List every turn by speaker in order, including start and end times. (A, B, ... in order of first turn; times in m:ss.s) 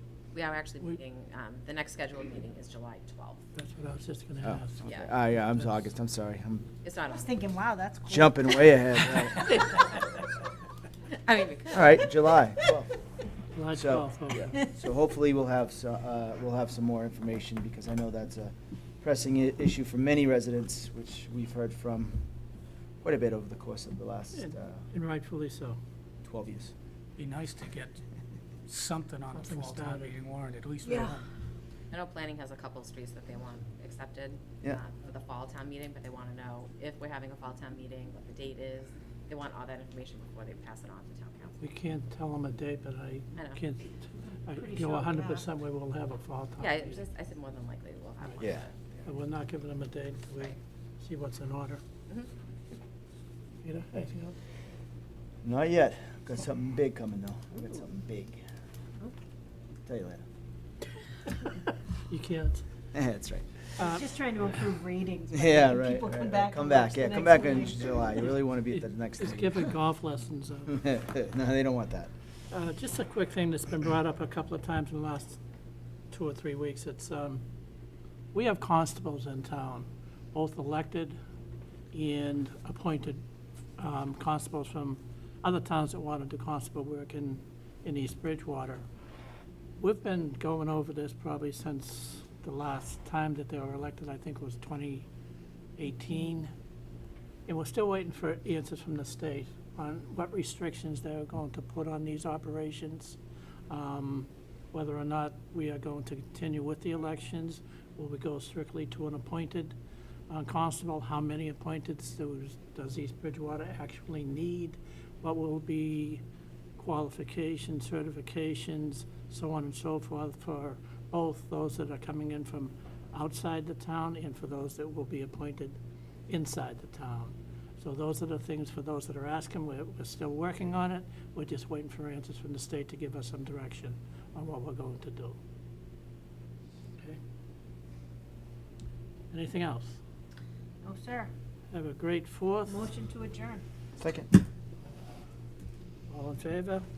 0:00.3-0:03.4 A
0:03.6-0:04.9 B
0:04.4-0:06.7 C
0:04.8-0:05.1 A
0:06.8-0:07.4 A
0:07.1-0:09.6 D
0:08.1-0:09.8 C
0:11.1-0:12.1 A
0:11.7-0:12.9 C
0:13.5-0:14.5 B
0:13.7-0:22.2 C
0:23.0-0:24.9 C
0:24.3-0:25.8 B
0:26.2-0:26.7 C
0:27.2-0:28.0 E
0:28.7-0:31.2 E
0:29.3-0:30.2 B
0:30.9-0:31.1 D
0:31.9-0:41.7 A
0:41.6-0:46.9 B
0:44.5-0:45.5 D
0:46.6-0:48.9 A
0:48.4-0:48.6 C
0:49.0-0:51.8 B
0:53.6-0:54.4 B
0:55.4-0:58.4 C
0:59.8-1:00.2 C
1:01.4-1:02.6 B
1:02.9-1:03.8 C
1:03.8-1:08.2 D
1:03.8-1:04.0 B
1:05.3-1:09.7 C
1:08.7-1:10.8 B
1:10.7-1:12.1 C
1:12.5-1:15.4 B
1:16.1-1:17.4 B
1:18.3-1:21.2 B
1:21.9-1:23.2 B
1:23.8-1:28.8 B
1:29.8-1:35.1 B
1:35.8-1:36.5 B
1:37.4-1:49.8 B
1:50.3-1:56.2 B
1:56.8-2:15.4 B
2:19.3-2:20.0 B
2:20.8-2:21.3 D
2:21.7-2:22.8 B
2:22.6-2:23.6 D
2:24.0-2:24.3 C
2:26.1-2:26.9 B